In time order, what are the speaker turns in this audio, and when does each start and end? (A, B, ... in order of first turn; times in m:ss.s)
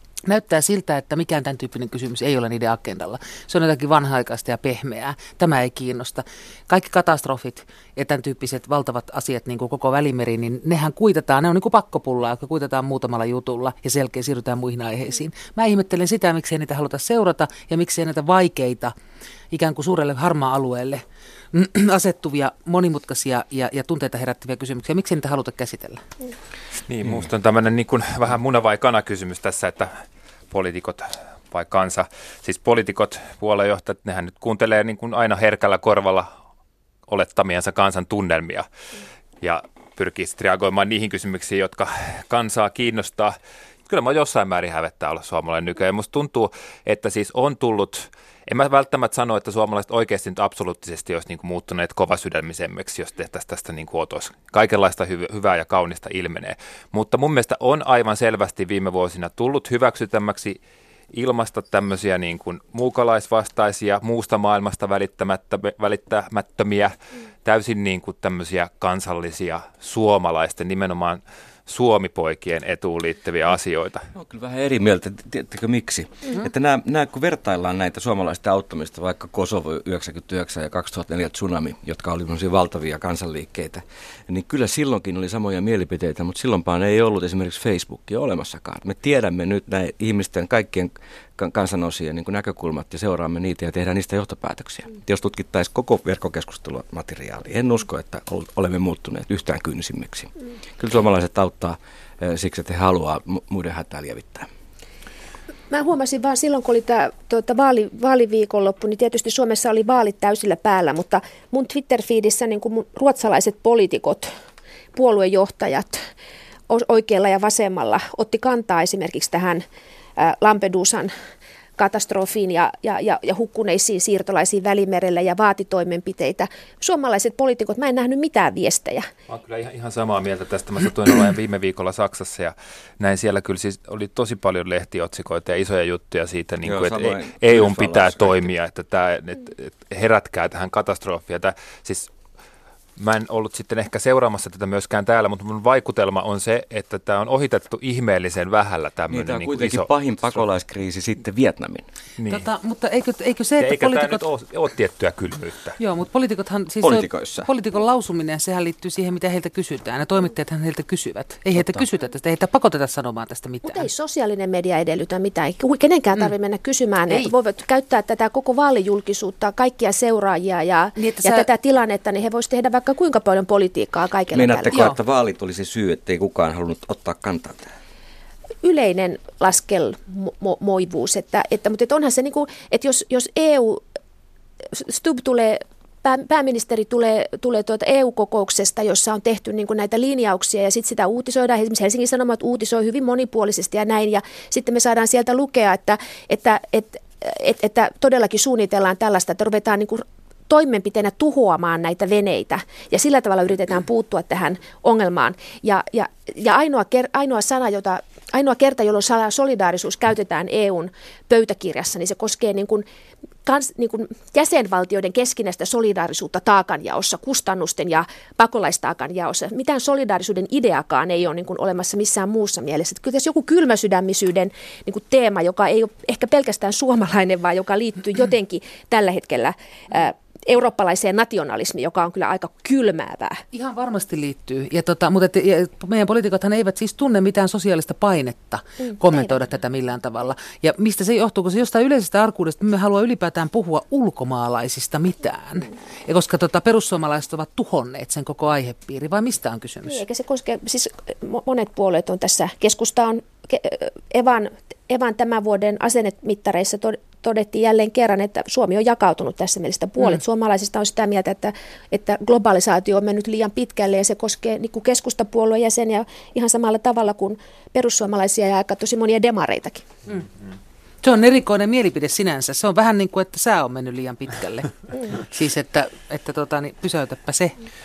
0:00.2-0:18.9 A
0:19.5-0:26.0 A
0:26.9-0:36.3 B
0:37.1-0:38.7 B
0:39.4-1:00.6 B
1:01.1-1:14.1 B
1:14.1-1:44.5 C
1:45.7-1:54.3 D
1:55.0-1:56.0 D
1:56.7-1:59.6 D
2:00.2-2:01.1 D
2:01.8-2:09.1 D
2:09.3-2:22.1 B
2:16.6-2:18.4 C
2:23.0-2:30.4 B
2:29.1-2:31.9 C
2:32.2-2:32.5 B
2:32.3-2:34.3 A
2:33.6-2:35.8 B
2:35.8-2:43.9 A
2:36.8-2:37.5 C
2:43.6-2:54.8 D
2:51.0-2:51.5 A
2:54.3-2:57.7 C
2:58.6-3:03.8 D
3:04.7-3:32.8 D
3:33.4-3:53.4 D
3:53.5-4:10.0 A
4:09.9-4:29.8 D
4:31.0-4:37.6 A